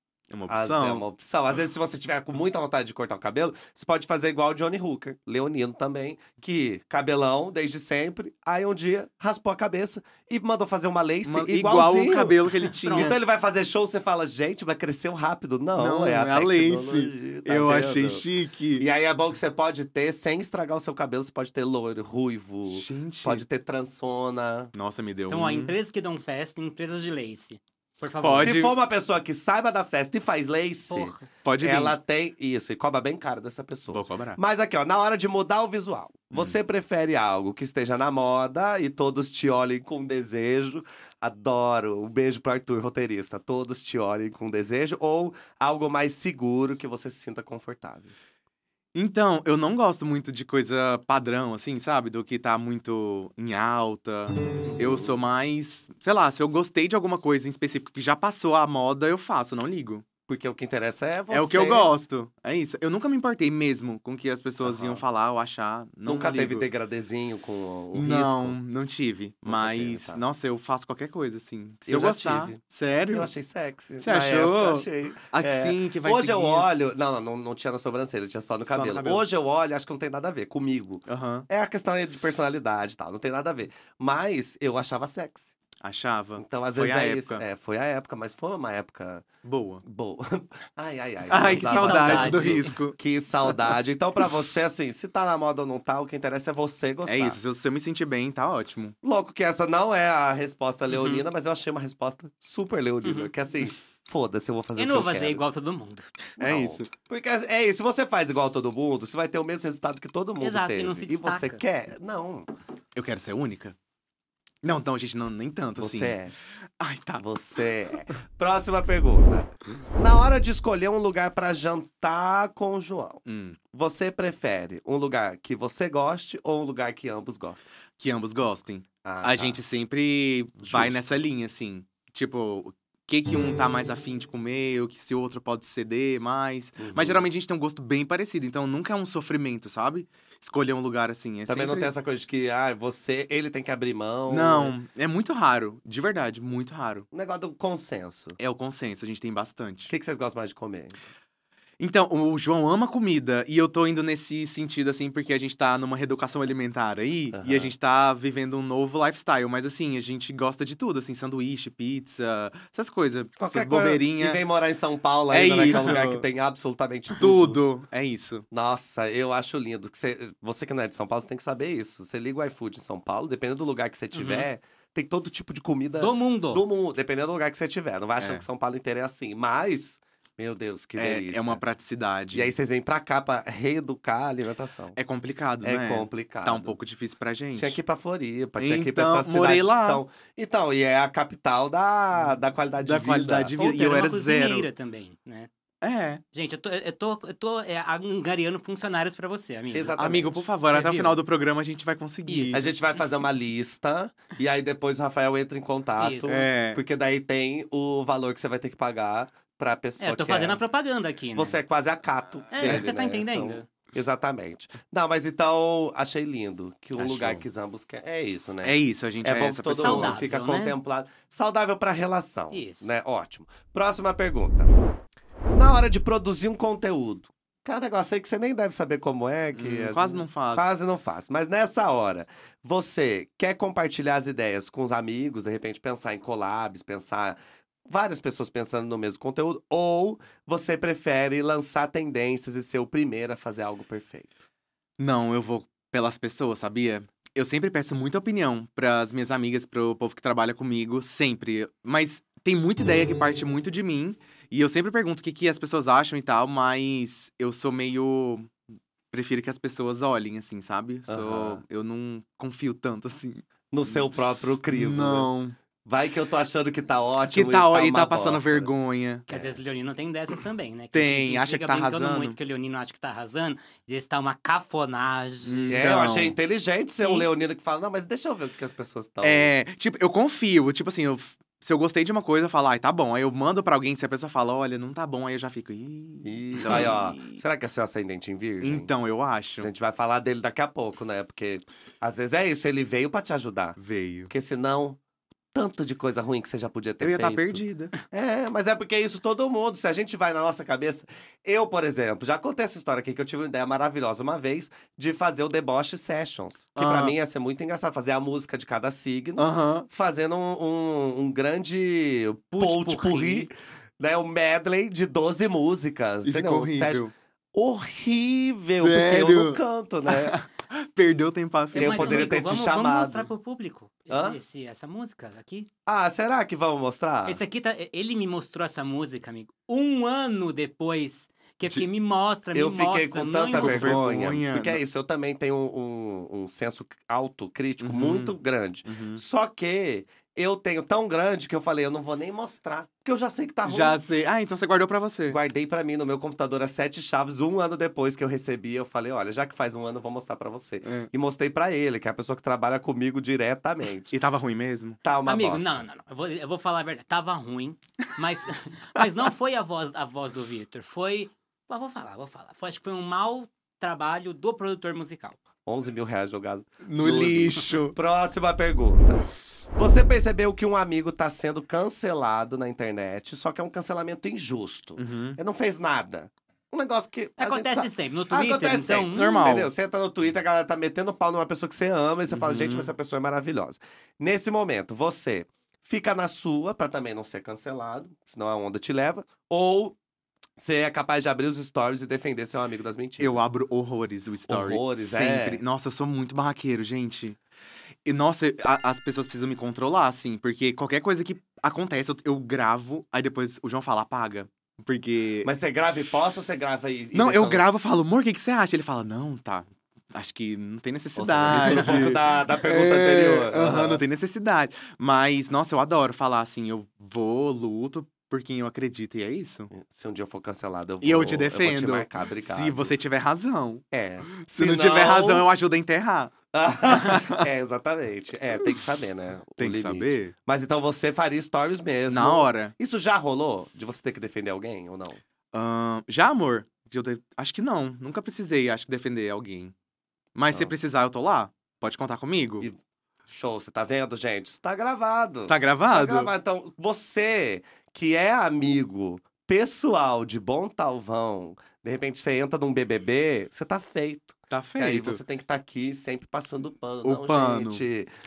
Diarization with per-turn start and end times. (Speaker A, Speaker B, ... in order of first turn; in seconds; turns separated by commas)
Speaker A: 0.3-1.0, Speaker B: 0.5-18.2, Speaker A: 11.2-13.2, Speaker C: 12.7-13.1, Speaker A: 15.8-18.9, Speaker B: 18.8-24.7, Speaker A: 22.7-23.4, Speaker A: 24.7-25.7, Speaker C: 25.3-28.6, Speaker A: 28.2-28.7, Speaker B: 28.4-48.1, Speaker C: 30.9-31.3, Speaker A: 31.4-32.0, Speaker A: 33.9-34.4, Speaker A: 48.9-60.0, Speaker B: 54.7-55.1, Speaker B: 60.3-61.9, Speaker A: 61.3-66.7, Speaker B: 64.6-65.0, Speaker B: 66.1-68.6, Speaker A: 67.9-73.3, Speaker B: 69.5-70.2, Speaker B: 71.8-72.6, Speaker B: 73.1-85.5, Speaker A: 74.0-76.7, Speaker A: 78.7-79.2, Speaker A: 81.1-81.5, Speaker A: 85.8-87.4, Speaker B: 86.4-89.2, Speaker A: 89.4-89.8, Speaker B: 89.8-97.4, Speaker A: 91.3-93.0, Speaker C: 91.4-92.7, Speaker A: 97.1-98.9, Speaker B: 99.0-105.4, Speaker C: 100.9-101.2, Speaker C: 103.0-103.3, Speaker C: 104.8-106.1, Speaker A: 106.4-106.9, Speaker B: 106.4-112.5, Speaker C: 110.4-111.6, Speaker A: 113.0-113.8, Speaker A: 114.6-116.2, Speaker B: 115.8-116.3, Speaker A: 116.8-117.2, Speaker B: 117.2-127.6, Speaker A: 123.2-123.6, Speaker A: 128.0-141.9, Speaker B: 129.0-129.6, Speaker B: 130.6-131.0, Speaker B: 136.8-137.2, Speaker B: 141.5-144.7, Speaker A: 144.3-147.1, Speaker B: 147.1-148.4, Speaker A: 148.4-149.9, Speaker B: 149.9-150.9, Speaker A: 151.8-164.4, Speaker B: 157.3-157.7, Speaker B: 163.4-167.6, Speaker A: 165.3-166.2, Speaker A: 167.2-168.4, Speaker B: 168.5-181.6, Speaker C: 174.1-174.5, Speaker C: 176.0-176.6, Speaker A: 178.2-178.4, Speaker A: 181.0-182.5, Speaker B: 182.3-185.0, Speaker A: 184.9-187.8, Speaker B: 185.6-186.7, Speaker B: 187.6-193.5, Speaker A: 188.6-190.0, Speaker A: 192.8-194.7, Speaker C: 193.6-195.5, Speaker A: 195.8-196.2, Speaker C: 196.3-200.2, Speaker B: 199.7-200.4, Speaker A: 200.0-202.7, Speaker C: 200.7-201.2, Speaker C: 202.3-202.6, Speaker B: 202.5-210.6, Speaker C: 206.0-206.4, Speaker A: 206.3-206.8, Speaker C: 210.0-211.6, Speaker B: 211.3-224.7, Speaker C: 212.5-213.7, Speaker A: 217.0-217.4, Speaker A: 218.6-220.2, Speaker C: 219.8-220.8, Speaker C: 222.5-222.9, Speaker B: 225.5-244.4, Speaker A: 229.5-230.6, Speaker A: 245.0-258.5, Speaker A: 259.1-264.0, Speaker B: 261.1-261.6, Speaker B: 263.7-265.3, Speaker A: 264.7-265.5, Speaker B: 265.8-268.7, Speaker A: 267.3-269.3, Speaker C: 269.3-275.8, Speaker A: 270.9-272.4, Speaker A: 275.4-276.3, Speaker B: 275.7-279.5, Speaker C: 277.0-277.3, Speaker A: 279.2-287.4, Speaker B: 286.2-288.9, Speaker A: 288.6-289.7, Speaker B: 289.6-295.0, Speaker A: 293.8-294.3, Speaker B: 295.5-320.4, Speaker A: 297.0-297.9, Speaker A: 306.8-307.1, Speaker A: 309.4-309.9, Speaker C: 312.5-313.5, Speaker A: 316.2-317.1, Speaker A: 318.7-322.3, Speaker C: 321.7-325.7, Speaker B: 321.7-323.3, Speaker B: 324.1-324.4, Speaker B: 325.9-327.4, Speaker C: 327.2-334.0, Speaker B: 332.5-344.0, Speaker A: 333.5-334.8, Speaker A: 337.8-338.3, Speaker A: 338.9-339.2, Speaker A: 343.6-345.4, Speaker B: 345.3-354.1, Speaker A: 350.8-351.1, Speaker A: 354.1-355.0, Speaker B: 355.0-355.8, Speaker C: 355.2-365.4, Speaker B: 365.6-389.9, Speaker A: 366.8-367.9, Speaker A: 375.0-375.4, Speaker C: 377.4-379.4, Speaker A: 379.1-379.7, Speaker A: 382.3-382.9, Speaker B: 390.6-393.4, Speaker A: 393.2-397.4, Speaker B: 394.5-395.6, Speaker A: 398.1-405.5, Speaker B: 405.4-407.6, Speaker A: 407.1-419.7, Speaker B: 411.1-414.0, Speaker B: 419.7-422.9, Speaker A: 421.0-426.3, Speaker B: 423.9-425.5, Speaker B: 426.5-435.2, Speaker A: 426.9-427.4, Speaker A: 429.6-430.3, Speaker A: 432.1-432.7, Speaker A: 435.5-439.7, Speaker A: 440.3-442.7, Speaker B: 443.3-458.1, Speaker A: 445.5-446.3, Speaker A: 454.5-455.2, Speaker A: 457.0-457.8